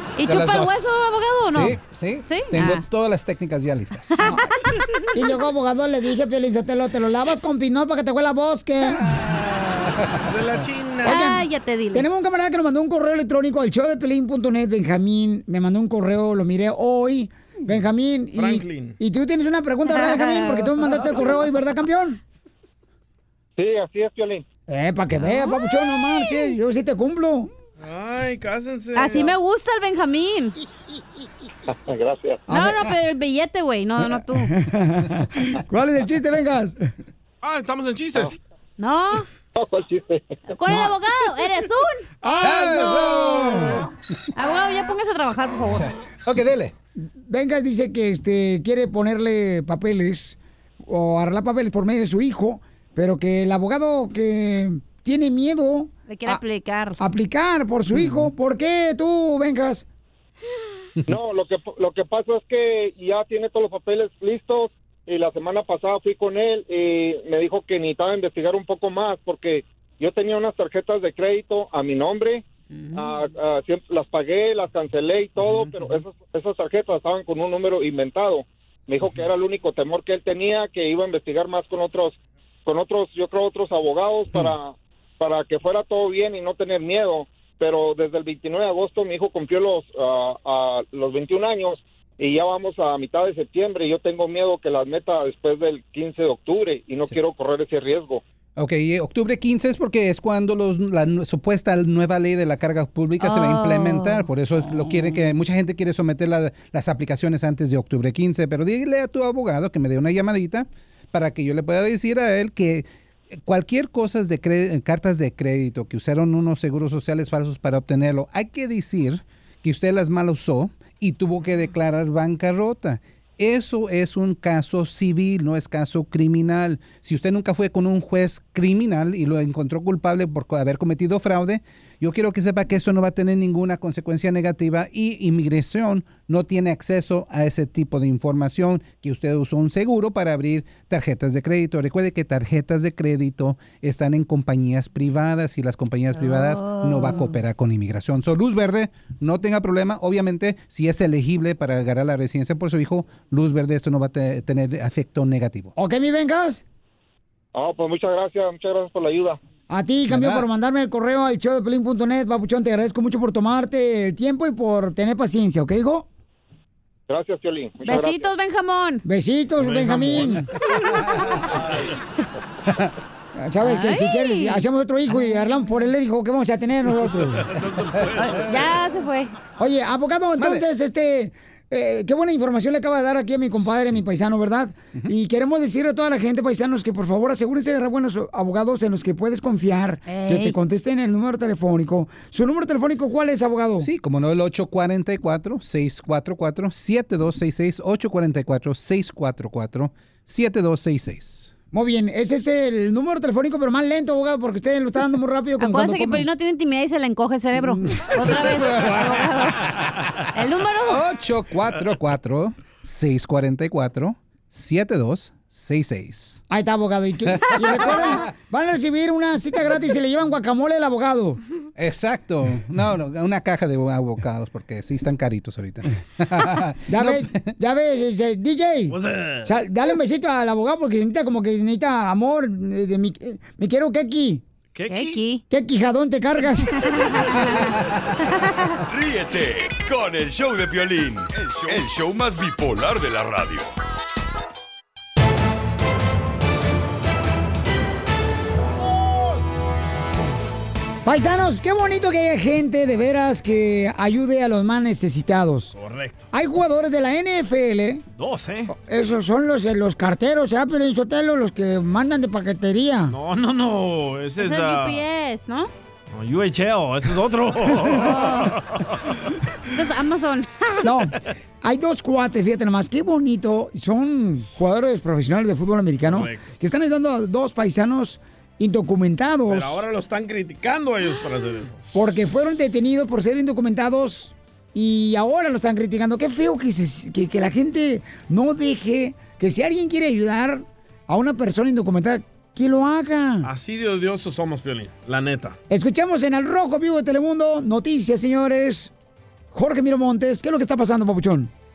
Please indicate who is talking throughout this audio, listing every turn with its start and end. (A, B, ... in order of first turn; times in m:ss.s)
0:00.2-0:02.8 A
0:00.3-0:01.0 B
0:01.5-0:04.3 B
0:04.1-0:04.8 A
0:04.2-0:04.5 C
0:05.1-0:09.1 C
0:09.0-0:10.3 B
0:10.3-0:11.3 D
0:11.0-0:12.1 A
0:11.1-0:22.2 C
0:18.4-0:19.0 D
0:19.8-0:21.5 A
0:23.6-0:24.4 E
0:24.7-0:27.5 C
0:25.2-0:25.6 A
0:27.8-0:29.3 D
0:29.0-0:30.6 A
0:31.7-0:32.4 E
0:32.5-0:32.8 C
0:32.5-0:34.5 A
0:34.4-0:36.8 C
0:37.4-0:38.4 D
0:38.8-0:39.3 A
0:39.6-0:40.4 E
0:40.5-0:42.1 A
0:40.7-0:40.9 C
0:42.2-0:43.8 C
0:42.4-0:43.7 B
0:44.4-0:45.9 A
0:45.7-0:46.7 B
0:47.0-0:56.4 C
0:56.1-0:57.0 A
0:57.0-0:59.9 C
0:57.9-0:58.2 B
1:01.1-1:38.2 E
1:12.8-1:13.0 A
1:15.4-1:16.0 B
1:38.6-1:52.9 B
1:43.2-1:44.3 A
1:44.7-1:45.2 C
1:53.4-2:35.7 B
2:26.1-2:27.4 A
2:35.8-2:36.6 C
2:37.6-2:39.4 E
2:39.7-2:46.1 C
2:40.1-2:40.4 B
2:47.1-2:48.3 E
2:47.9-2:49.0 A
2:49.0-2:50.5 C
2:49.6-2:50.5 D
2:53.4-2:57.5 C
2:53.6-2:54.6 A
2:57.1-2:58.7 D
2:58.2-2:59.3 A
2:59.6-3:13.9 C
3:00.4-3:00.6 B
3:03.6-3:04.0 B
3:10.1-3:10.6 A
3:13.8-3:21.5 B
3:21.7-3:26.3 C
3:25.6-3:29.7 A
3:27.6-3:28.2 C
3:28.8-3:29.2 B
3:30.3-3:31.0 A
3:30.9-3:36.4 B
3:36.5-3:41.4 C
3:37.3-3:38.3 B
3:37.6-3:38.2 A
3:41.8-3:47.5 B
3:46.9-3:54.4 C
3:48.9-3:49.5 D
3:54.8-3:55.2 D
3:54.9-3:55.4 A
3:55.5-3:56.8 C
3:56.8-3:58.8 A
3:57.0-3:57.5 D
3:58.9-4:03.7 F
4:11.0-4:15.8 C
4:15.8-4:16.3 D
4:16.3-4:18.0 C
4:18.2-4:18.7 D
4:18.7-4:23.2 C
4:23.1-4:25.0 D
4:24.4-4:25.7 A
4:26.1-4:29.2 D
4:27.9-4:28.5 C
4:29.7-4:30.8 A
4:30.8-4:39.8 C
4:36.1-4:36.4 D
4:39.5-4:41.8 D
4:41.9-4:53.5 C
4:53.4-4:55.6 D
4:55.7-4:58.9 C
4:59.5-5:01.5 C